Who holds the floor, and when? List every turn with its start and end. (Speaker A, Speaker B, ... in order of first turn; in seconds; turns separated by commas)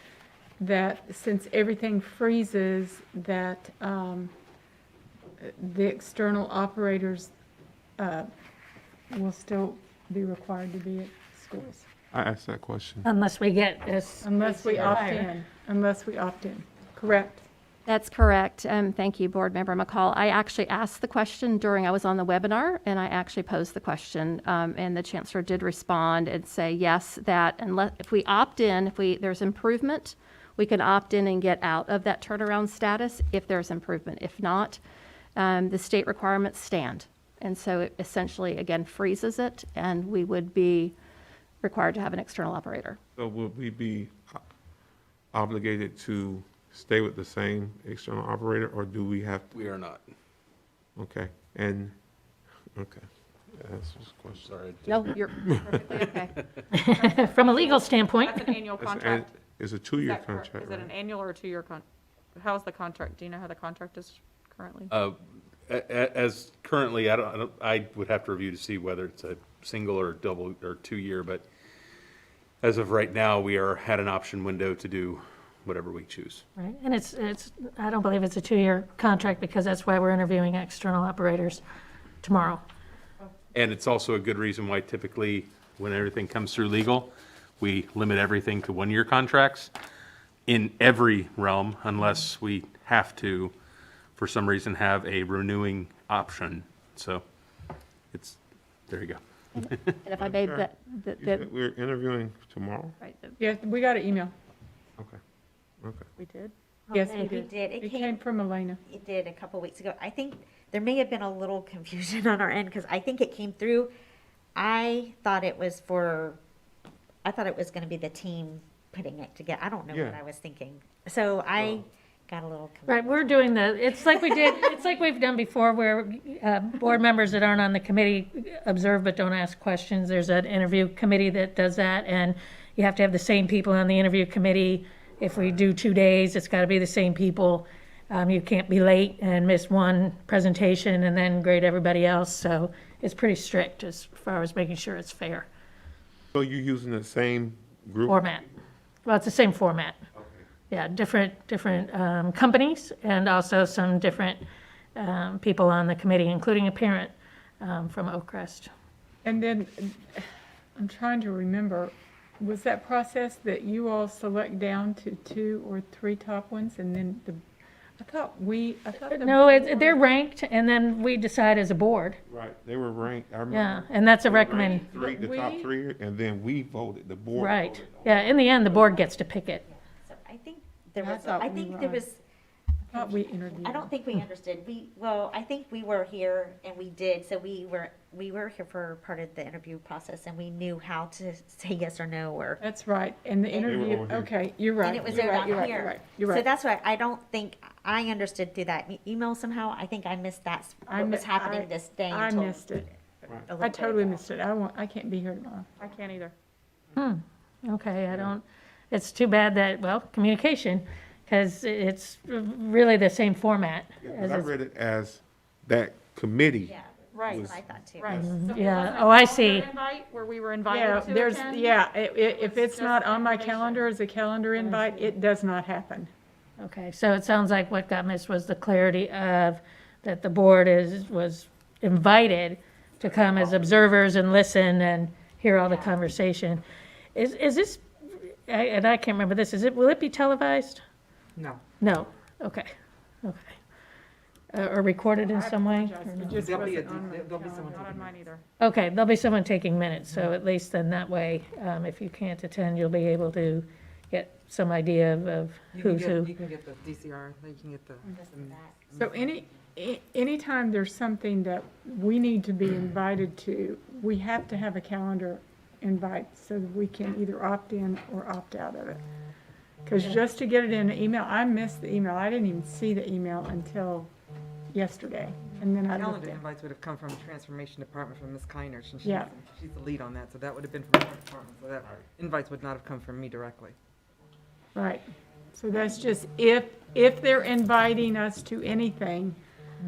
Speaker A: 0.6-4.3, Speaker A: 5.4-7.3, Speaker A: 8.0-8.3, Speaker A: 9.1-11.8, Speaker B: 12.1-13.1, Speaker C: 13.0-15.3, Speaker A: 14.2-17.4, Speaker D: 17.9-34.8, Speaker D: 35.4-41.0, Speaker D: 41.6-43.0, Speaker B: 43.2-44.4, Speaker B: 45.3-49.5, Speaker E: 49.5-50.0, Speaker B: 51.0-51.9, Speaker B: 52.8-54.5, Speaker E: 54.4-55.0, Speaker D: 54.9-56.3, Speaker E: 56.0-56.6, Speaker C: 56.7-58.7, Speaker F: 56.9-59.3, Speaker B: 58.8-60.9, Speaker F: 60.0-61.8, Speaker F: 62.4-64.9, Speaker E: 64.9-71.5, Speaker E: 72.6-76.4, Speaker C: 76.6-81.6, Speaker C: 82.2-82.6, Speaker E: 83.5-89.7, Speaker E: 90.5-93.5, Speaker E: 94.2-97.2, Speaker E: 98.1-100.0, Speaker D: 99.6-101.5, Speaker B: 100.2-103.0, Speaker D: 103.0-103.4, Speaker A: 103.4-104.3, Speaker B: 105.8-106.1, Speaker F: 106.2-106.5, Speaker G: 106.9-108.2, Speaker A: 106.9-108.8, Speaker C: 107.1-107.3, Speaker G: 108.9-113.9, Speaker G: 114.5-116.4, Speaker G: 117.2-123.5, Speaker B: 119.9-120.2, Speaker B: 121.6-121.8, Speaker C: 122.9-145.5, Speaker G: 124.3-124.5, Speaker B: 146.3-148.2, Speaker C: 148.1-148.4, Speaker C: 149.1-150.0, Speaker B: 150.2-150.4, Speaker C: 150.7-154.4, Speaker C: 155.0-158.7, Speaker A: 159.2-167.4, Speaker A: 168.0-170.0, Speaker C: 169.1-172.2, Speaker B: 172.3-178.4, Speaker C: 173.5-175.0, Speaker A: 174.8-175.7, Speaker C: 177.3-179.6, Speaker G: 179.7-182.2, Speaker A: 181.0-182.0, Speaker G: 182.9-192.6, Speaker A: 182.9-183.9, Speaker A: 192.6-196.4, Speaker G: 193.5-194.0, Speaker B: 193.7-194.3, Speaker G: 194.8-202.8, Speaker A: 200.9-202.9, Speaker G: 203.4-204.2, Speaker A: 203.6-205.8, Speaker F: 205.8-206.3, Speaker C: 207.0-214.5, Speaker B: 214.0-216.8, Speaker G: 216.7-218.2, Speaker F: 217.1-217.4, Speaker B: 217.3-218.4, Speaker F: 218.0-223.9, Speaker C: 218.2-219.7, Speaker A: 220.7-226.1, Speaker F: 224.5-225.1, Speaker C: 226.6-236.6, Speaker G: 235.6-236.0, Speaker C: 237.2-240.8, Speaker H: 241.4-241.6, Speaker C: 241.8-242.7, Speaker C: 243.2-243.6, Speaker C: 244.5-246.5, Speaker A: 245.2-247.8, Speaker H: 246.3-248.3, Speaker F: 247.7-248.4, Speaker C: 248.6-256.3, Speaker H: 255.7-259.3, Speaker G: 258.1-258.7, Speaker A: 258.9-269.0, Speaker A: 269.9-274.1, Speaker A: 274.7-276.4, Speaker H: 275.9-283.8, Speaker A: 279.0-279.3, Speaker A: 284.8-289.4